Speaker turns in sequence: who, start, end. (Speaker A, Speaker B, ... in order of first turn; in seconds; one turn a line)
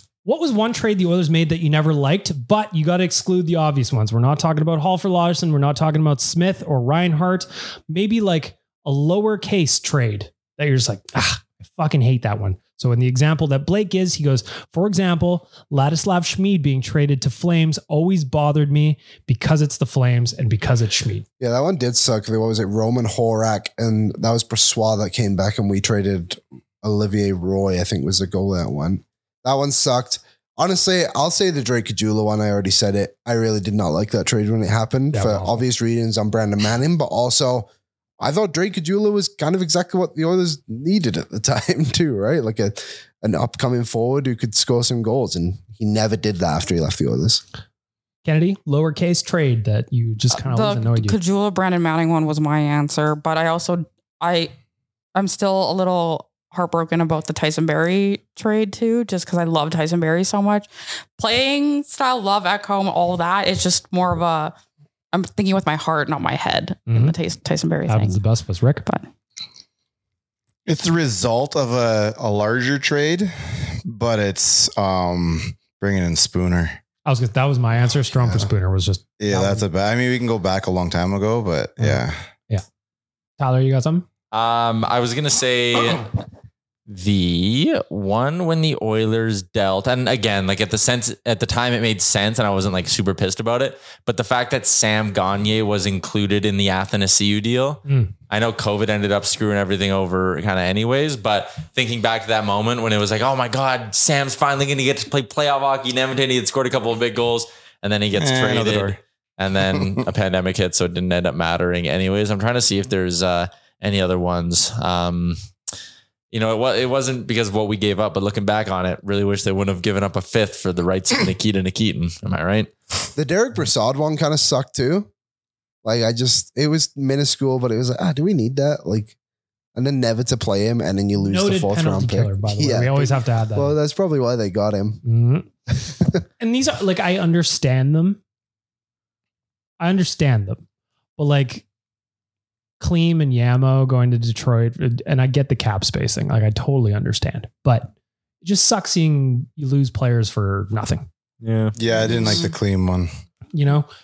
Speaker A: 0.2-21.2
Speaker B: 21.4-37.7
Speaker A: 35.1-35.6
Speaker B: 38.2-47.4
Speaker A: 48.2-51.2
Speaker C: 50.3-54.5
Speaker C: 55.1-64.5
Speaker C: 65.1-68.2
Speaker A: 66.9-67.2
Speaker A: 67.9-68.9
Speaker D: 70.7-76.8
Speaker A: 77.1-79.7
Speaker D: 79.2-82.2
Speaker A: 81.8-82.6
Speaker A: 83.4-84.1
Speaker E: 84.3-86.1
Speaker E: 86.9-115.4
Speaker A: 97.9-98.1
Speaker D: 108.2-109.0
Speaker E: 116.3-122.7
Speaker B: 123.2-125.1
Speaker B: 125.8-129.1
Speaker B: 129.8-135.0
Speaker A: 131.2-133.8
Speaker A: 135.1-135.5
Speaker A: 136.4-138.2
Speaker A: 139.8-140.6
Speaker A: 141.2-141.6
Speaker A: 142.8-147.9
Speaker A: 148.4-151.1
Speaker E: 151.4-151.8
Speaker D: 151.8-153.1
Speaker C: 152.1-152.4
Speaker A: 153.5-153.9